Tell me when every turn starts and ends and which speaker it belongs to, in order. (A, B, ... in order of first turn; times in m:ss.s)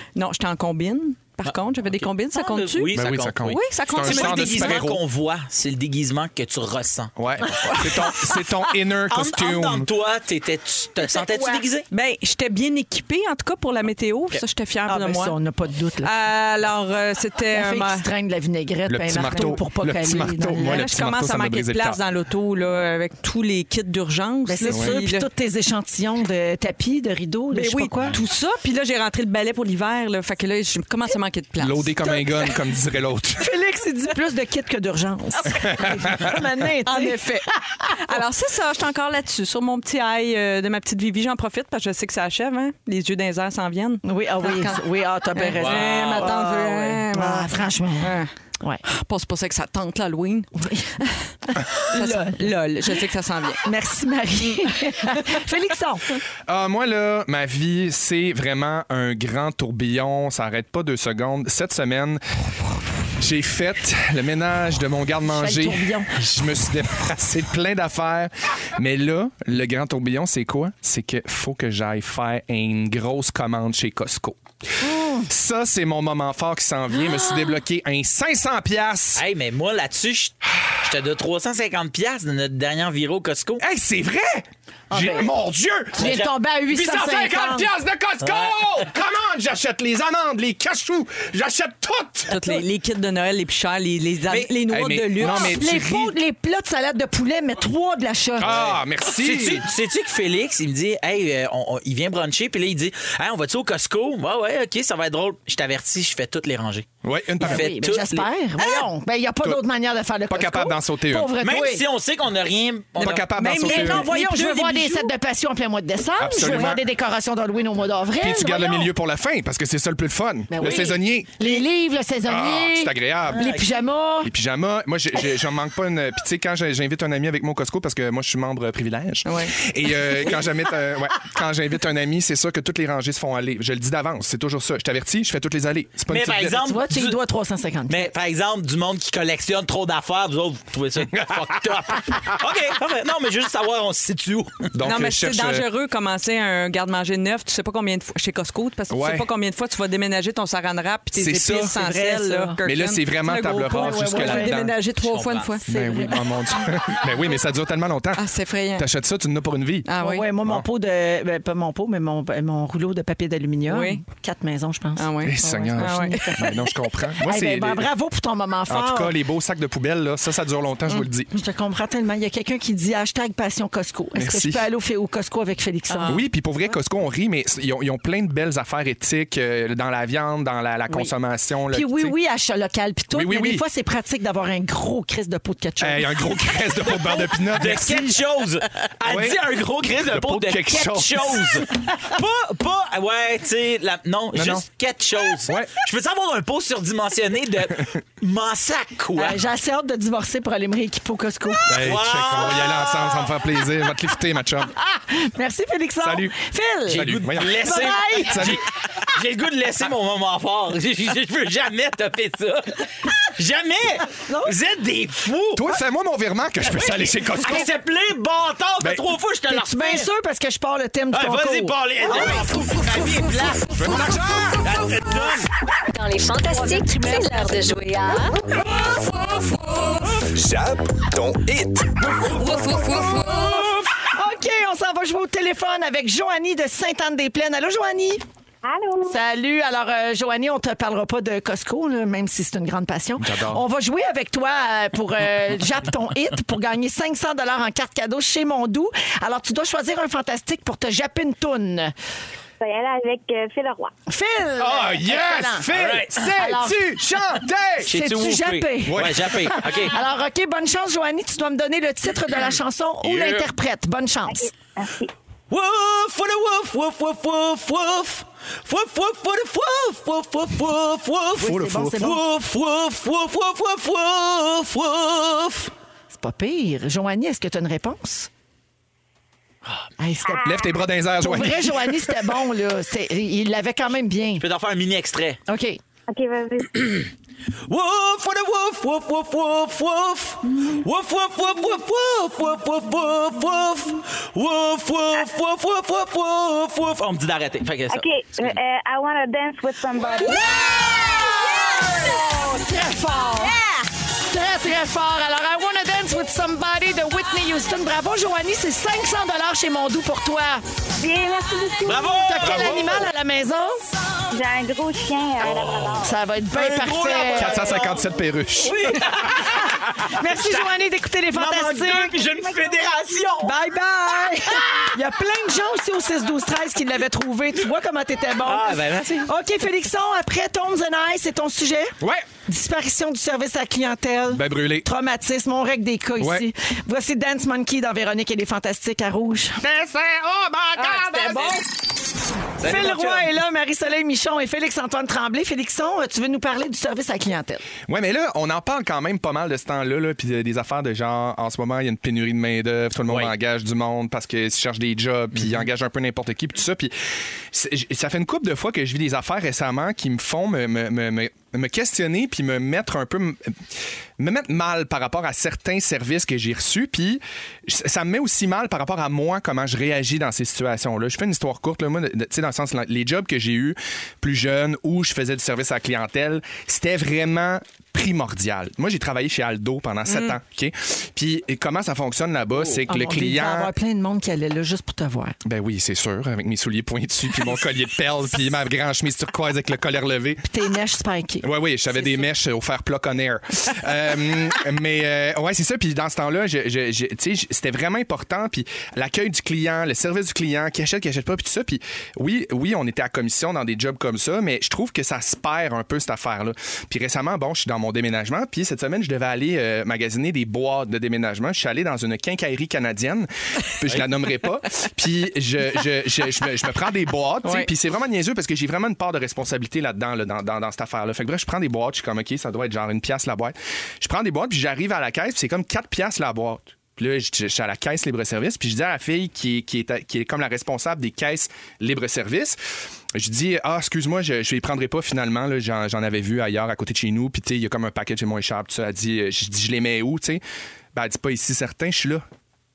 0:00.2-0:04.8 A
0:01.4-0:07.1 B
0:02.9-0:05.0 C
0:07.2-0:09.9 C
0:07.7-0:07.9 A
0:09.1-0:11.9 B
0:11.2-0:11.6 D
0:11.9-0:15.4 A
0:14.9-0:16.1 D
0:16.0-0:18.1 A
0:17.5-0:20.8 D
0:18.9-0:22.0 C
0:19.2-0:19.6 A
0:20.6-0:25.3 A
0:24.5-0:28.2 D
0:24.7-0:25.0 C
0:27.5-0:32.2 A
0:31.6-0:33.5 C
0:33.4-0:38.0 D
0:35.7-0:36.4 C
0:36.9-0:44.8 A
0:44.0-0:48.8 D
0:45.4-0:48.3 A
0:45.6-0:46.4 B
0:48.9-0:53.6 A
0:50.6-0:50.9 D
0:51.9-0:53.0 D
0:53.6-0:56.1 D
0:56.5-1:02.2 C
1:03.2-1:14.4 C
1:05.3-1:06.2 D
1:14.8-1:15.3 D
1:15.3-1:19.2 C
1:19.2-1:23.6 B
1:23.6-1:32.6 C
1:24.9-1:25.3 D
1:26.0-1:27.7 D
1:26.0-1:26.3 B
1:28.2-1:28.8 B
1:32.3-1:35.6 A
1:34.3-1:34.5 B
1:34.7-1:36.2 C
1:35.2-1:38.6 D
1:38.4-1:39.6 C
1:38.4-1:46.9 B
1:47.0-1:47.7 C
1:47.4-1:48.3 B
1:47.4-1:51.8 D
1:50.3-1:51.3 C
1:51.4-1:53.3 B
1:53.0-1:54.1 C
1:53.0-1:55.1 A
1:53.6-1:58.9 D
1:56.2-1:56.8 C
1:58.2-2:01.6 C
2:00.5-2:04.3 D
2:02.3-2:03.5 C
2:03.3-2:03.6 B
2:04.2-2:16.6 C
2:09.3-2:09.6 A
2:16.1-2:17.2 B
2:16.5-2:18.1 D
2:17.9-2:24.7 B
2:24.7-2:25.7 C
2:24.8-2:35.6 A
2:28.9-2:29.3 C
2:31.2-2:31.8 C
2:31.7-2:32.6 D
2:32.6-2:34.8 C
2:33.6-2:34.6 D
2:35.0-2:35.6 B
2:35.6-2:36.5 D
2:35.7-2:38.2 C
2:38.2-2:38.9 A
2:38.8-2:39.9 C
2:39.9-2:40.3 A
2:40.0-2:49.2 D
2:43.7-2:44.0 A
2:45.0-2:46.6 A
2:45.2-2:47.9 C
2:48.7-2:51.3 C
2:51.3-2:56.2 D
2:54.2-2:54.6 C
2:55.9-2:56.2 A
2:56.1-3:02.2 C
3:01.7-3:06.5 D
3:03.1-3:03.6 C
3:05.8-3:08.2 C
3:06.9-3:19.4 B
3:09.0-3:11.7 C
3:14.3-3:14.6 C
3:15.4-3:15.7 C
3:19.2-3:21.9 D
3:21.7-3:24.7 C
3:21.7-3:23.0 B
3:24.8-3:28.6 D
3:26.0-3:26.3 C
3:26.9-3:35.6 B
3:26.9-3:28.6 C
3:34.3-3:34.6 D
3:35.6-3:37.7 C
3:36.6-3:40.1 B
3:39.5-3:43.3 D
3:41.1-3:44.0 B
3:43.7-3:44.7 C
3:44.6-3:45.5 B
3:45.9-3:48.5 E
3:46.5-3:47.5 D
3:52.2-3:53.0 B
3:52.5-3:58.2 D
3:58.6-3:59.2 F
3:59.1-4:11.9 D
4:03.2-4:03.6 C
4:12.6-4:13.9 F
4:14.1-4:15.7 D
4:14.6-4:17.9 C
4:15.7-4:16.2 B
4:16.2-4:16.9 D
4:17.8-4:20.0 B
4:17.9-4:24.5 D
4:18.9-4:19.7 C
4:23.0-4:23.5 B
4:24.3-4:25.1 F
4:25.5-4:35.7 B
4:31.4-4:32.2 D
4:31.4-4:32.0 C
4:36.1-4:38.3 D
4:40.0-4:40.6 D
4:40.3-4:40.7 F
4:40.4-4:42.2 C
4:41.2-4:44.4 D
4:44.4-4:45.4 B
4:45.5-4:45.8 D
4:46.1-4:47.1 F
4:47.6-4:58.6 B
4:57.9-5:02.0 F
5:00.2-5:00.7 B
5:00.3-5:03.6 D
5:04.3-5:10.6 D
5:11.0-5:12.4 F
5:11.8-5:12.8 B
5:12.2-5:13.8 D
5:12.4-5:13.1 C
5:14.3-5:16.1 F
5:15.4-5:18.0 B
5:16.0-5:17.8 D
5:17.4-5:18.9 C
5:18.6-5:20.7 B
5:20.0-5:22.2 D
5:21.3-5:23.5 B
5:22.2-5:22.8 F
5:23.4-5:39.6 D
5:28.4-5:29.3 B
5:32.0-5:32.3 C
5:34.3-5:34.9 C
5:36.2-5:36.5 C
5:39.6-5:41.6 C
5:41.0-5:41.5 D
5:42.6-5:43.3 B
5:42.6-5:47.6 D
5:47.9-5:56.9 C
5:53.1-5:53.3 B
5:57.5-6:03.6 C
6:04.2-6:23.7 C
6:20.1-6:20.4 A
6:22.7-6:25.4 D
6:25.4-6:30.5 C
6:30.5-6:31.5 D
6:31.4-7:12.6 C
6:57.4-6:57.7 A
7:13.1-7:20.4 C
7:20.9-7:22.2 C